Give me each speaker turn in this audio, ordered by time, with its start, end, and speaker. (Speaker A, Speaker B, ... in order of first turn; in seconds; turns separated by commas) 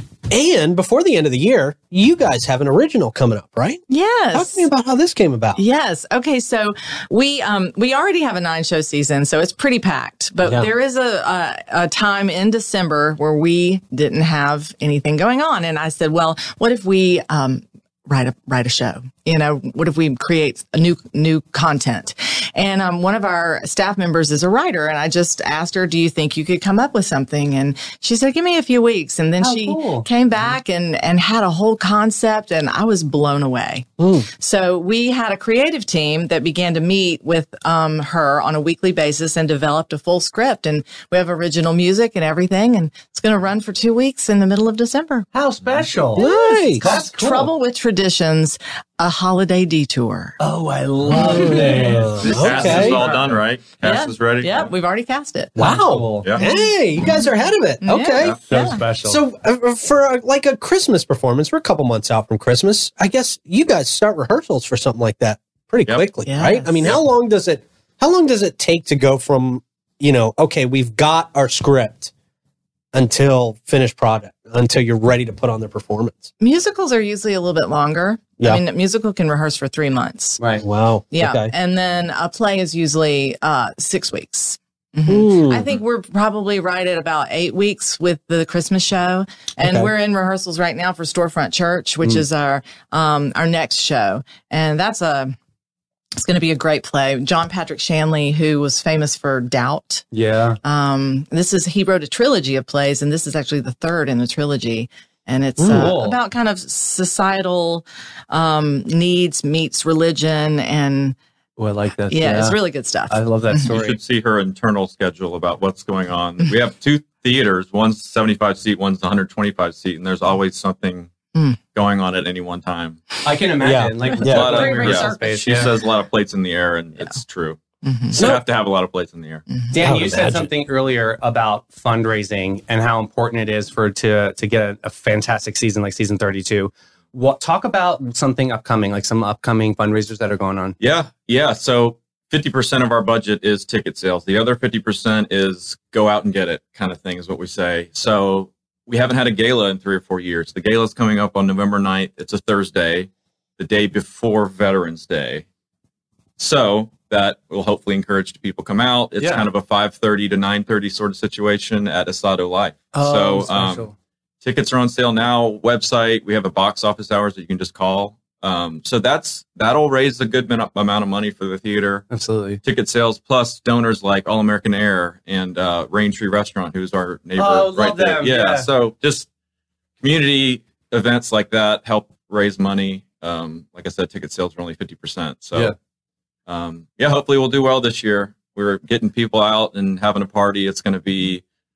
Speaker A: 0.3-3.8, Speaker B: 3.9-4.7, Speaker A: 4.3-5.6, Speaker B: 5.5-45.3, Speaker C: 29.4-30.1, Speaker A: 34.0-34.3, Speaker C: 45.3-47.5, Speaker A: 46.1-46.8, Speaker B: 46.1-50.4, Speaker C: 50.4-53.4, Speaker B: 51.1-51.9, Speaker A: 51.1-53.0, Speaker D: 52.2-54.7, Speaker B: 53.8-55.5, Speaker A: 55.5-58.4, Speaker C: 55.6-56.3, Speaker B: 56.4-57.3, Speaker B: 57.8-58.8, Speaker C: 58.5-59.2, Speaker A: 59.0-72.1, Speaker B: 66.2-66.8, Speaker A: 72.9-76.3, Speaker B: 76.4-80.4, Speaker C: 80.4-80.6, Speaker A: 80.6-81.5, Speaker B: 81.1-95.3, Speaker A: 85.1-85.7, Speaker A: 89.6-89.9, Speaker B: 96.2-100.0, Speaker C: 100.1-100.6, Speaker B: 100.6-111.2, Speaker A: 105.6-105.9, Speaker C: 105.7-106.2, Speaker C: 111.6-112.6, Speaker B: 112.1-113.6, Speaker C: 113.1-114.0, Speaker D: 113.7-121.1, Speaker D: 121.7-123.2, Speaker C: 123.2-125.7, Speaker A: 123.6-124.6, Speaker D: 124.2-129.4, Speaker B: 124.4-125.7, Speaker B: 127.8-128.2, Speaker A: 128.1-128.4, Speaker C: 129.7-140.8, Speaker A: 129.8-130.5, Speaker D: 140.8-155.4, Speaker D: 156.4-163.9, Speaker C: 159.2-159.5, Speaker C: 162.9-163.9, Speaker D: 164.4-172.1, Speaker C: 172.1-172.6, Speaker D: 172.6-179.3, Speaker C: 177.4-178.7, Speaker D: 180.0-185.7, Speaker D: 186.5-191.4